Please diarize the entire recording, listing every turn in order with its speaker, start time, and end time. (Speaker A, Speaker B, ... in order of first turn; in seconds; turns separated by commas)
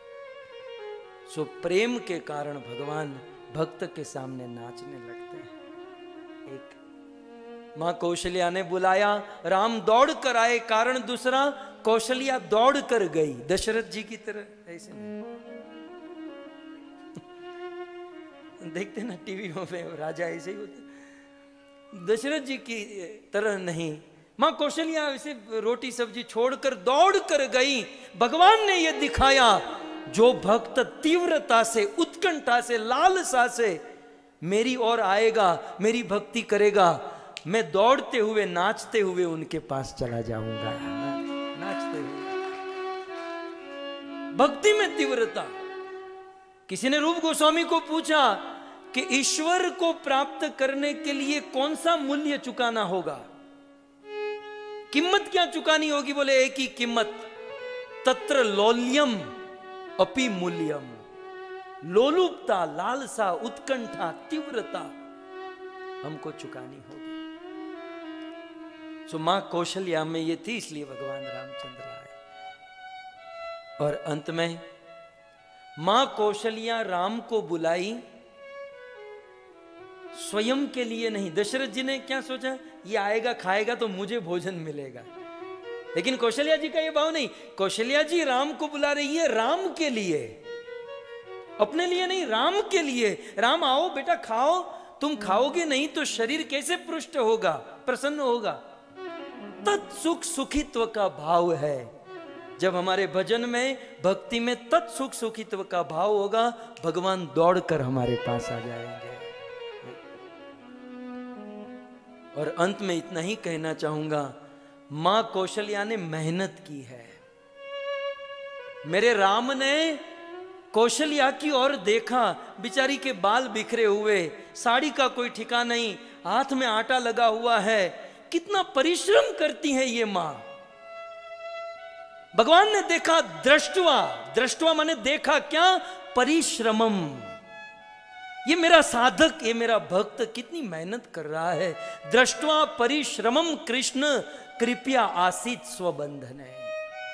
Speaker A: 1.3-5.5, Speaker A: 6.5-6.8, Speaker A: 7.8-15.1, Speaker A: 18.6-20.9, Speaker A: 21.9-33.8, Speaker A: 34.4-42.3, Speaker A: 44.3-45.5, Speaker A: 46.7-53.2, Speaker A: 54.9-57.3, Speaker A: 58.0-59.3, Speaker A: 60.0-61.0, Speaker A: 61.8-64.9, Speaker A: 66.0-67.2, Speaker A: 69.1-72.2, Speaker A: 73.8-74.6, Speaker A: 75.8-78.0, Speaker A: 80.1-85.1, Speaker A: 85.9-90.4, Speaker A: 91.6-98.6, Speaker A: 99.6-101.9, Speaker A: 102.6-109.3, Speaker A: 112.3-114.3, Speaker A: 114.9-117.2, Speaker A: 118.8-120.0, Speaker A: 120.7-130.4, Speaker A: 132.3-137.3, Speaker A: 138.4-146.7